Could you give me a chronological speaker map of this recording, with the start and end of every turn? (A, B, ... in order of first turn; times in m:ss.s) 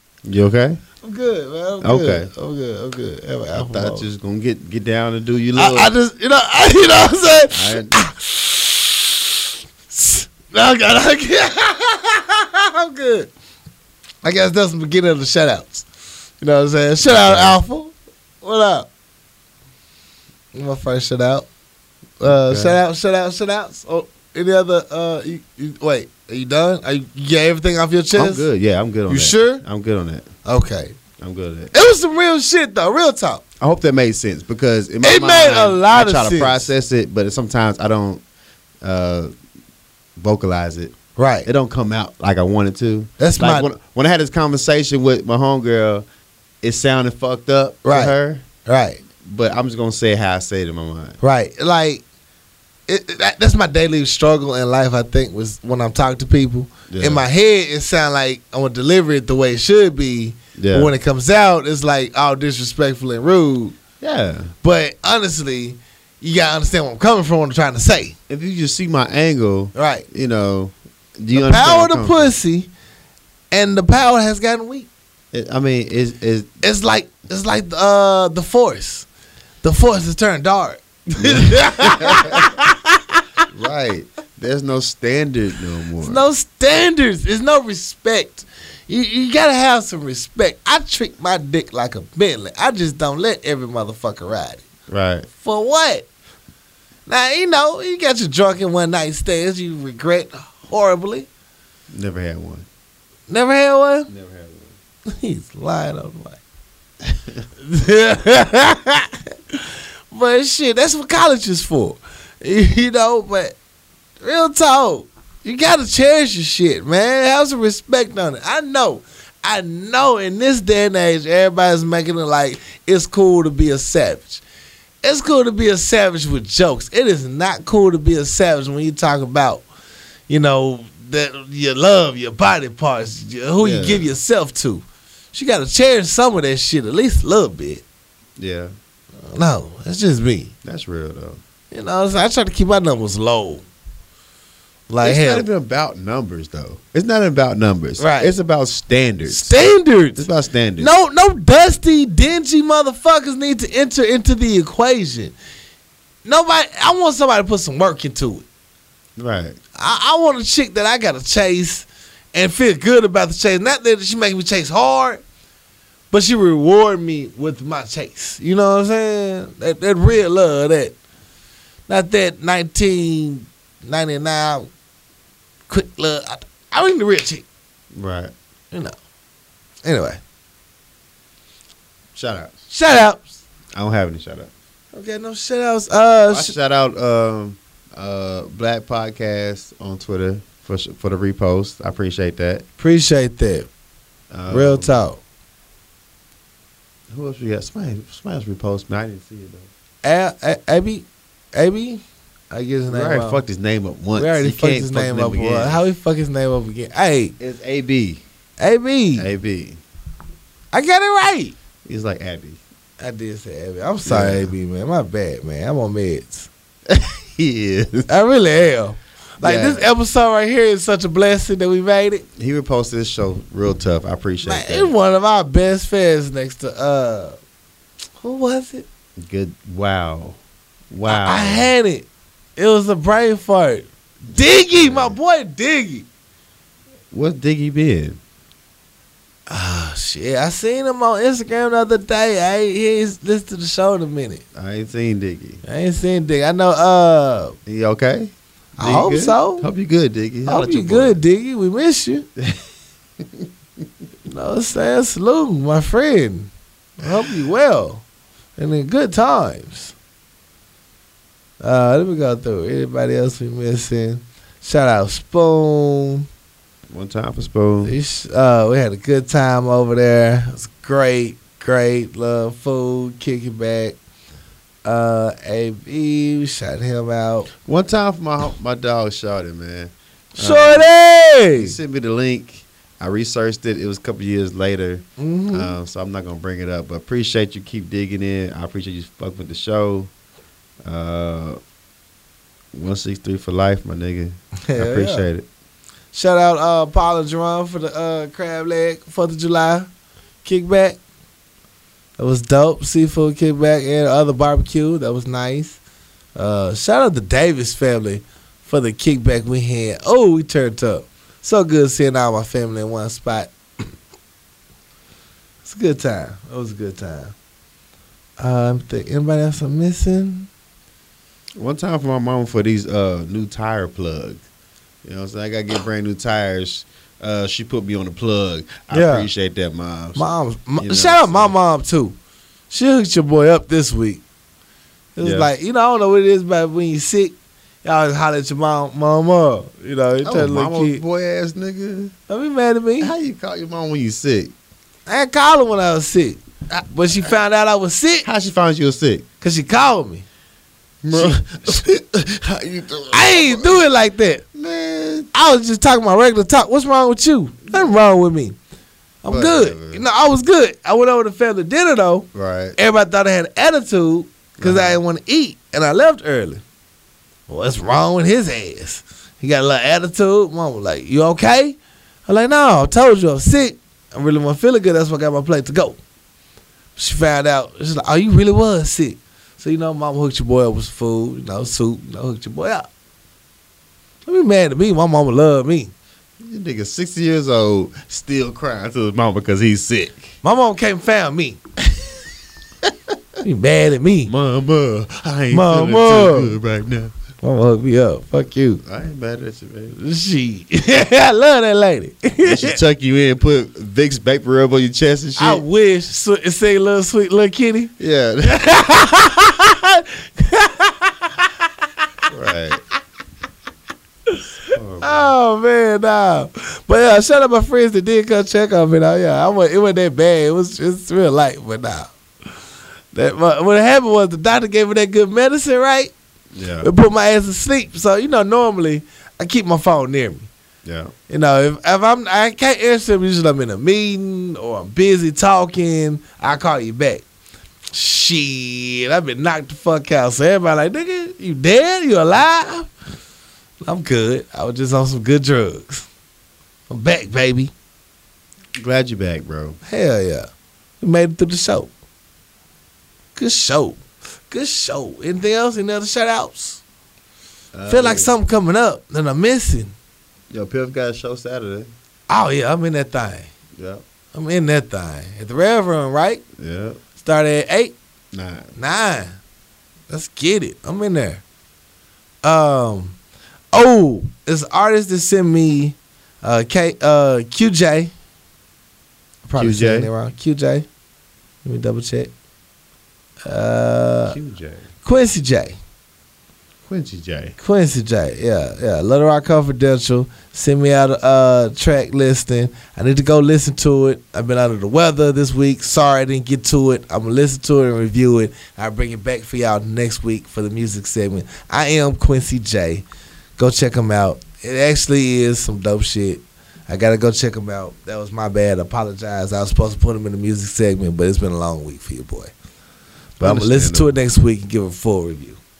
0:00.2-0:00.8 A
0:01.0-0:04.0 B
0:01.8-0:02.3 A
0:03.5-0:05.9 A
0:05.6-0:09.2 B
0:07.5-0:07.9 A
0:09.9-0:13.3 B
0:14.2-0:15.8 B
0:16.4-0:18.9 B
0:17.0-0:17.6 A
0:20.5-0:21.5 B
0:22.2-0:28.5 B
0:22.2-0:22.8 A
0:28.1-0:30.3 A
0:29.1-0:29.6 B
0:30.4-0:31.0 B
0:31.2-0:31.7 A
0:31.7-0:33.4 B
0:33.6-0:38.2 A
0:35.0-0:36.7 B
0:38.8-0:39.3 A
0:40.2-0:46.0 A
0:41.2-0:41.5 B
0:43.2-0:43.7 B
0:46.6-0:48.4 A
0:47.8-0:49.0 B
0:49.2-0:51.2 A
0:51.2-0:52.0 B
0:52.9-1:03.8 B
0:56.9-0:57.2 A
1:00.6-1:00.9 A
1:04.0-1:04.5 A
1:04.6-1:08.2 B
1:08.3-1:12.3 A
1:09.7-1:10.0 B
1:11.3-1:12.7 B
1:13.5-1:14.9 B
1:15.3-1:16.5 A
1:16.6-1:19.1 B
1:19.6-1:23.2 B
1:21.2-1:22.5 A
1:23.5-1:26.2 A
1:26.0-1:34.6 B
1:34.9-1:35.3 A
1:35.4-1:36.0 B
1:37.0-1:41.3 B
1:41.9-1:42.7 A
1:43.3-1:44.1 B
1:44.1-1:44.7 A
1:45.1-1:46.4 B
1:47.6-1:53.6 B
1:54.2-2:04.4 B
2:05.0-2:09.6 B
2:10.3-2:17.8 B
2:13.6-2:14.0 A
2:18.4-2:18.7 A
2:19.2-2:20.5 B
2:20.6-2:21.4 A
2:21.7-2:23.6 B
2:24.9-2:25.4 B
2:25.0-2:29.5 A
2:28.0-2:28.3 B
2:29.3-2:30.2 B
2:30.2-2:30.9 A
2:30.8-2:35.4 B
2:36.2-2:38.4 B
2:39.2-2:39.6 A
2:39.8-2:45.2 B
2:46.1-2:51.0 B
2:51.9-2:54.7 B
2:55.7-2:57.4 B
2:57.9-2:58.3 A
2:59.8-3:00.2 B
3:02.1-3:02.6 A
3:02.7-3:03.3 B
3:03.7-3:04.5 A
3:04.9-3:06.5 B
3:06.3-3:12.6 A
3:12.8-3:13.7 B
3:14.3-3:14.9 A
3:14.5-3:15.2 B
3:17.1-3:19.7 A
3:20.0-3:23.4 B
3:22.9-3:25.8 A
3:24.2-3:27.3 B
3:27.4-3:28.2 A
3:28.6-3:29.3 B
3:29.2-3:29.8 A
3:30.7-3:31.5 B
3:31.8-3:32.6 A
3:33.0-3:36.5 B
3:34.0-3:34.5 A
3:36.9-3:38.1 A
3:38.1-3:42.2 B
3:39.4-3:39.9 A
3:42.4-3:44.9 A
3:44.4-3:47.4 B
3:48.2-3:48.8 B
3:49.2-3:50.4 A
3:50.9-3:51.7 A
3:51.0-3:52.0 B
3:52.6-3:56.0 B
3:54.7-3:55.2 A
3:57.1-3:58.2 A
3:59.5-4:04.4 B
4:04.5-4:05.6 A
4:05.6-4:07.6 B
4:07.6-4:11.2 A
4:08.8-4:09.7 B
4:10.4-4:12.3 B
4:14.3-4:18.0 B
4:18.6-4:19.9 B
4:21.6-4:26.2 B
4:26.9-4:27.9 A
4:27.8-4:34.0 B
4:34.8-4:37.5 B
4:37.6-4:40.9 A
4:40.4-4:41.8 B
4:41.5-4:50.1 A
4:45.2-4:45.7 B
4:50.8-4:51.6 A
4:52.7-4:55.4 A
4:54.7-4:55.2 B
4:56.1-4:59.9 B
5:00.4-5:01.0 B
5:02.2-5:05.8 B
5:06.4-5:13.5 B
5:15.6-5:17.3 B
5:18.4-5:20.5 B
5:21.6-5:24.4 A
5:25.0-5:30.2 A
5:28.9-5:29.3 B
5:30.2-5:32.2 B
5:30.8-5:31.5 A
5:32.7-5:34.2 B
5:35.2-5:41.0 B
5:35.2-5:35.5 A
5:40.2-5:42.1 A
5:42.3-5:43.1 B
5:43.0-5:44.5 A
5:45.1-5:48.3 B
5:46.7-5:47.3 A
5:48.2-5:49.2 A
5:49.4-5:50.2 B
5:51.0-5:53.8 A
5:51.1-5:51.4 B
5:53.1-5:54.4 B
5:54.5-5:55.3 A
5:55.3-5:58.6 B
5:59.2-6:06.6 B
5:59.3-6:00.0 A
6:02.3-6:02.8 A
6:04.6-6:05.0 A
6:07.5-6:16.0 B
6:17.0-6:22.9 B
6:24.2-6:25.9 B
6:26.4-6:30.4 A
6:30.4-6:31.6 B
6:33.4-6:34.3 B
6:34.3-6:37.1 A
6:35.5-6:36.6 B
6:37.4-6:38.8 B
6:38.8-6:40.0 A
6:39.9-6:42.8 B
6:42.4-6:45.6 A
6:45.4-6:47.9 B
6:48.0-6:48.7 A
6:48.4-6:51.5 B
6:52.3-6:52.8 A
6:54.7-6:55.3 A
6:55.0-7:02.1 B
7:03.1-7:06.1 B
7:06.5-7:06.9 A
7:06.8-7:10.5 B
7:10.8-7:11.1 A
7:11.3-7:17.2 B
7:17.9-7:22.9 B
7:23.8-7:26.1 B
7:26.9-7:27.7 B
7:28.8-7:29.8 A
7:29.8-7:30.5 B
7:31.0-7:31.9 B
7:33.4-7:36.8 B
7:37.7-7:38.3 A
7:37.9-7:39.9 B
7:40.5-7:41.9 A
7:42.3-7:43.5 B
7:43.7-7:44.0 A
7:44.3-7:46.4 B
7:46.6-7:47.0 A
7:47.2-7:48.0 B
7:48.3-7:48.7 A
7:48.8-7:49.4 B
7:50.1-7:51.4 B
7:52.4-7:53.2 B
7:53.7-7:58.1 B
7:59.4-8:00.8 B
7:59.6-8:00.1 A
8:01.6-8:02.3 B
8:03.4-8:04.4 B
8:04.3-8:04.8 A
8:05.0-8:05.8 B
8:06.8-8:07.6 A
8:07.6-8:23.0 B
8:23.6-8:32.5 B
8:33.4-8:35.6 B
8:33.4-8:34.1 A